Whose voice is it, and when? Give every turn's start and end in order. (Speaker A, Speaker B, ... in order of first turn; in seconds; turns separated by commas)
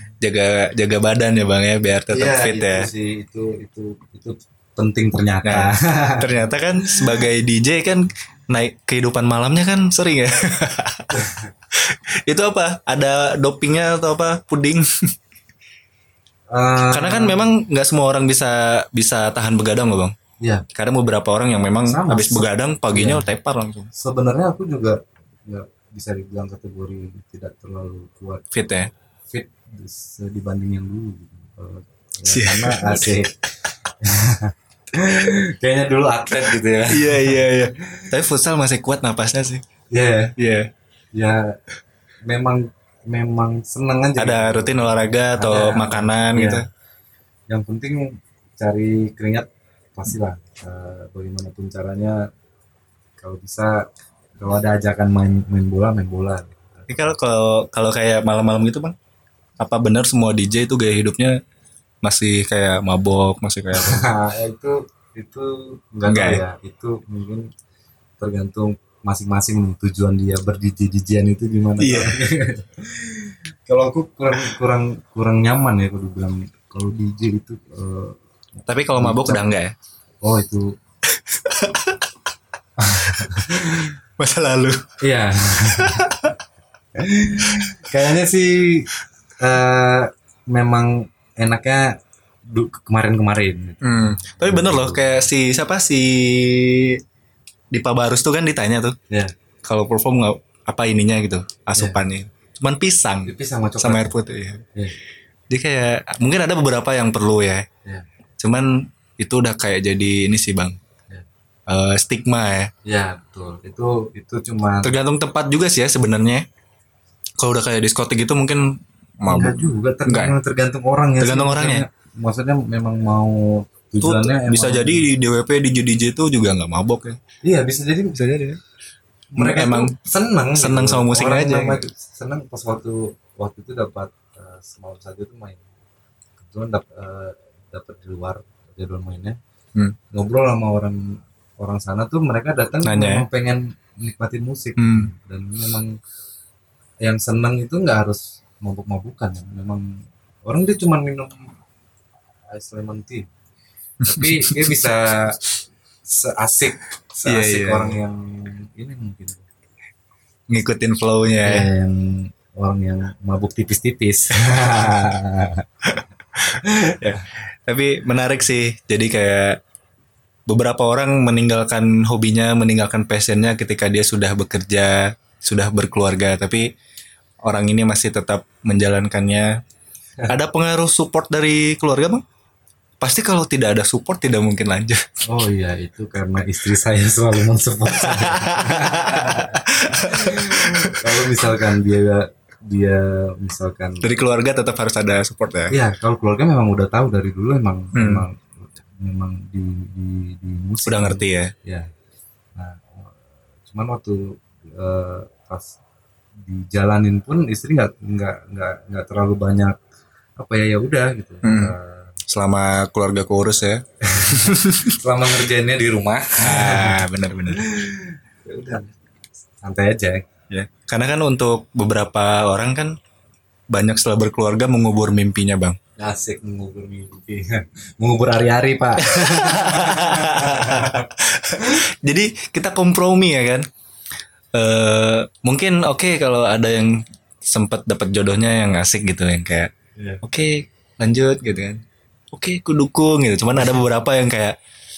Speaker A: 0.2-2.9, Speaker B: 2.1-7.2, Speaker A: 5.4-14.9, Speaker B: 11.1-11.4, Speaker B: 16.5-17.5, Speaker A: 16.9-20.1, Speaker A: 20.7-23.9, Speaker B: 21.8-23.3, Speaker B: 23.9-28.4, Speaker A: 28.5-28.9, Speaker B: 29.3-33.3, Speaker A: 32.3-33.2, Speaker B: 34.0-37.5, Speaker A: 36.9-39.6, Speaker B: 39.9-40.3, Speaker A: 40.4-40.7, Speaker B: 41.1-41.5, Speaker B: 42.3-46.6, Speaker A: 44.2-46.6, Speaker B: 47.5-52.2, Speaker B: 53.2-53.8, Speaker B: 54.4-57.1, Speaker A: 56.9-58.9, Speaker A: 59.6-61.4, Speaker A: 62.0-64.1, Speaker B: 63.7-67.5, Speaker A: 66.1-66.4, Speaker B: 68.2-78.2, Speaker A: 71.8-72.2, Speaker A: 78.7-79.7, Speaker B: 78.9-79.5, Speaker B: 80.2-80.7, Speaker A: 81.3-82.0, Speaker B: 82.8-83.9, Speaker A: 83.2-84.8, Speaker B: 85.0-86.1, Speaker A: 85.7-86.3, Speaker B: 87.0-92.0, Speaker B: 92.5-95.2, Speaker A: 93.8-97.0, Speaker A: 97.7-99.0, Speaker A: 99.6-104.6, Speaker B: 101.7-102.0, Speaker B: 103.2-104.1, Speaker A: 105.5-107.7, Speaker A: 108.4-110.8, Speaker A: 111.7-112.7, Speaker B: 112.8-114.9, Speaker A: 114.8-116.4, Speaker A: 117.4-120.3, Speaker B: 119.2-125.0, Speaker A: 121.2-121.8, Speaker A: 124.0-127.2, Speaker B: 127.4-128.2, Speaker A: 128.1-128.6, Speaker B: 129.3-135.6, Speaker A: 129.4-129.9, Speaker A: 130.6-131.8, Speaker B: 136.4-139.4, Speaker B: 140.1-145.9, Speaker A: 142.8-143.2, Speaker A: 144.8-145.1, Speaker B: 147.0-149.8, Speaker B: 150.4-151.4, Speaker B: 152.5-153.2, Speaker B: 154.0-155.4, Speaker A: 154.0-154.9, Speaker B: 156.1-159.4, Speaker A: 157.2-158.0, Speaker A: 160.5-161.7, Speaker B: 161.4-165.7, Speaker A: 164.5-164.9, Speaker B: 166.5-167.2, Speaker A: 167.0-169.6, Speaker A: 170.5-176.7, Speaker A: 177.4-179.5, Speaker A: 180.3-182.2, Speaker A: 183.0-185.0, Speaker B: 185.3-194.1, Speaker A: 188.0-191.4, Speaker A: 194.0-195.8, Speaker B: 195.7-201.9, Speaker A: 197.9-198.2, Speaker A: 200.8-201.5, Speaker B: 202.6-203.1, Speaker B: 203.7-205.8, Speaker B: 206.4-209.8, Speaker B: 210.4-212.1, Speaker A: 211.4-211.7, Speaker A: 212.3-214.9, Speaker B: 214.0-218.9, Speaker A: 216.4-217.6, Speaker B: 219.6-220.2, Speaker A: 220.5-222.9, Speaker A: 223.7-225.8, Speaker B: 226.0-231.1, Speaker A: 229.1-233.7, Speaker A: 234.5-239.7, Speaker B: 240.0-240.2, Speaker A: 240.2-241.8, Speaker A: 242.3-244.6